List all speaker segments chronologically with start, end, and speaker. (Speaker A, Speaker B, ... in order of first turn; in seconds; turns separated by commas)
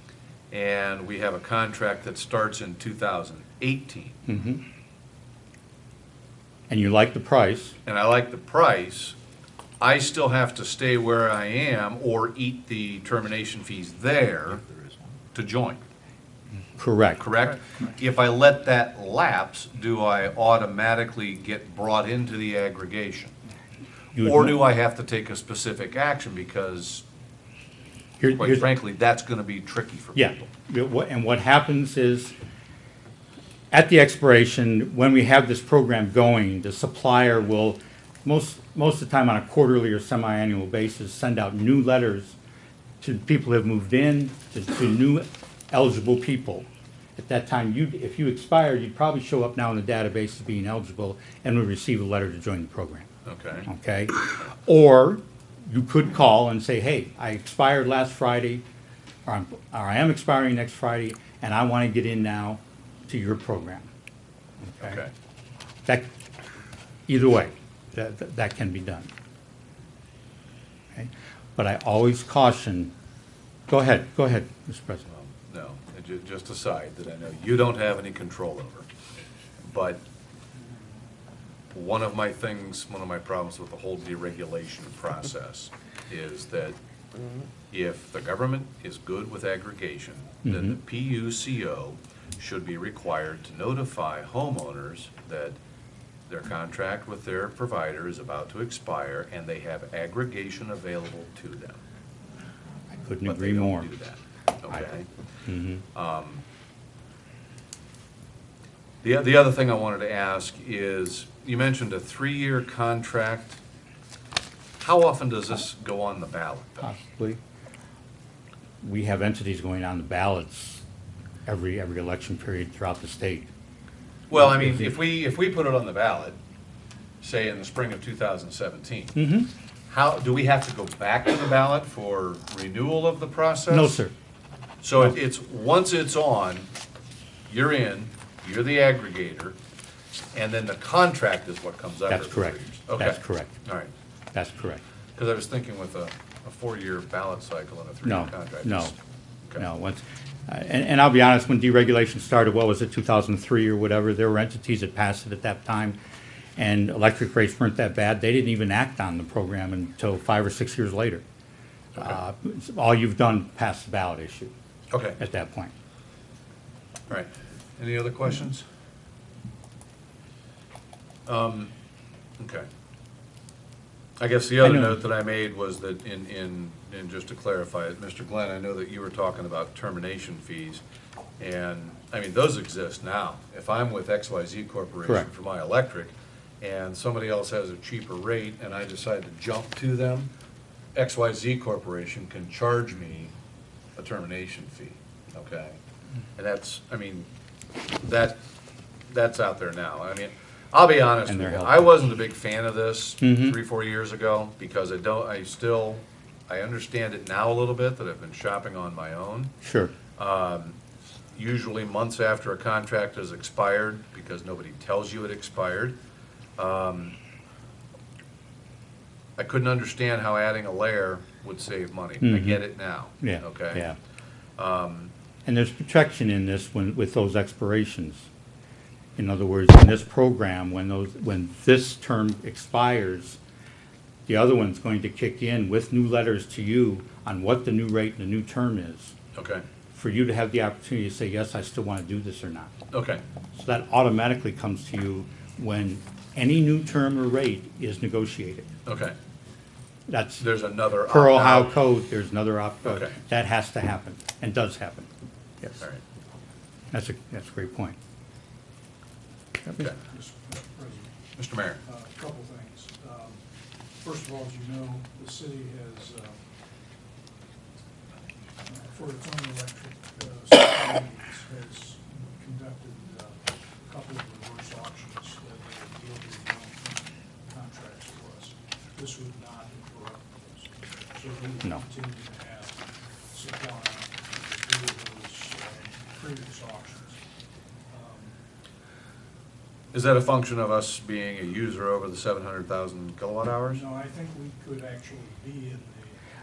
Speaker A: 0.5-4.2, Speaker B: 4.3-4.6, Speaker B: 6.7-7.8, Speaker A: 7.9-9.2, Speaker A: 9.8-14.6, Speaker A: 15.3-15.8, Speaker B: 16.8-17.3, Speaker A: 17.2-23.3, Speaker B: 24.1-24.6, Speaker A: 24.2-27.1, Speaker B: 28.2-28.7, Speaker A: 28.3-30.5, Speaker B: 30.1-32.3, Speaker B: 33.7-42.4, Speaker B: 43.0-53.1, Speaker A: 53.3-53.7, Speaker B: 53.7-58.6, Speaker B: 59.3-63.9, Speaker B: 64.6-65.0, Speaker A: 64.8-65.1, Speaker B: 67.1-69.1, Speaker B: 70.9-72.9, Speaker B: 73.7-75.0, Speaker A: 75.1-78.9, Speaker A: 79.7-80.0, Speaker A: 81.7-86.8, Speaker A: 87.7-95.6, Speaker B: 90.5-90.8, Speaker A: 96.3-101.8, Speaker B: 103.0-103.9, Speaker A: 103.2-105.1, Speaker B: 105.5-105.8, Speaker A: 105.9-106.4, Speaker A: 109.0-113.6, Speaker A: 114.8-116.9, Speaker B: 116.8-117.4, Speaker B: 118.8-120.8, Speaker B: 121.5-123.5, Speaker A: 124.3-126.4, Speaker B: 124.4-124.9, Speaker A: 127.2-129.2, Speaker B: 129.2-129.5, Speaker A: 129.9-134.0, Speaker B: 133.7-134.1, Speaker A: 134.8-136.7, Speaker A: 137.5-139.6, Speaker A: 140.3-143.9, Speaker B: 142.1-143.5, Speaker B: 144.3-144.8, Speaker A: 145.2-148.9, Speaker B: 148.1-148.9, Speaker B: 149.6-156.0, Speaker B: 156.6-161.2, Speaker B: 161.9-164.5, Speaker A: 164.9-165.2, Speaker B: 165.2-165.7, Speaker A: 167.1-168.6, Speaker A: 171.3-171.7, Speaker A: 172.4-172.7, Speaker A: 174.2-180.8, Speaker B: 174.6-175.0, Speaker A: 181.4-190.3, Speaker A: 190.9-193.3, Speaker A: 194.0-195.8, Speaker A: 196.4-197.3, Speaker A: 198.0-198.4, Speaker A: 199.1-209.5, Speaker B: 201.3-201.9, Speaker B: 203.2-203.6, Speaker B: 209.6-209.9, Speaker A: 210.2-210.8, Speaker A: 211.3-216.0, Speaker A: 216.6-217.2, Speaker A: 219.4-223.8, Speaker B: 222.2-222.6, Speaker B: 223.2-224.0, Speaker A: 224.6-225.1, Speaker B: 225.5-228.3, Speaker B: 229.2-233.4, Speaker B: 234.3-239.1, Speaker A: 239.3-239.6, Speaker B: 239.9-242.7, Speaker A: 242.9-243.2, Speaker B: 243.5-248.7, Speaker A: 248.9-249.2, Speaker B: 250.1-250.4, Speaker A: 250.4-251.8, Speaker B: 251.1-255.1, Speaker A: 252.8-253.2, Speaker B: 256.9-258.0, Speaker C: 259.9-261.1, Speaker A: 261.4-261.8, Speaker C: 261.9-263.4, Speaker C: 264.0-266.4, Speaker C: 268.7-282.8, Speaker C: 283.3-287.2, Speaker C: 287.9-288.3, Speaker A: 289.9-293.8, Speaker C: 293.7-296.2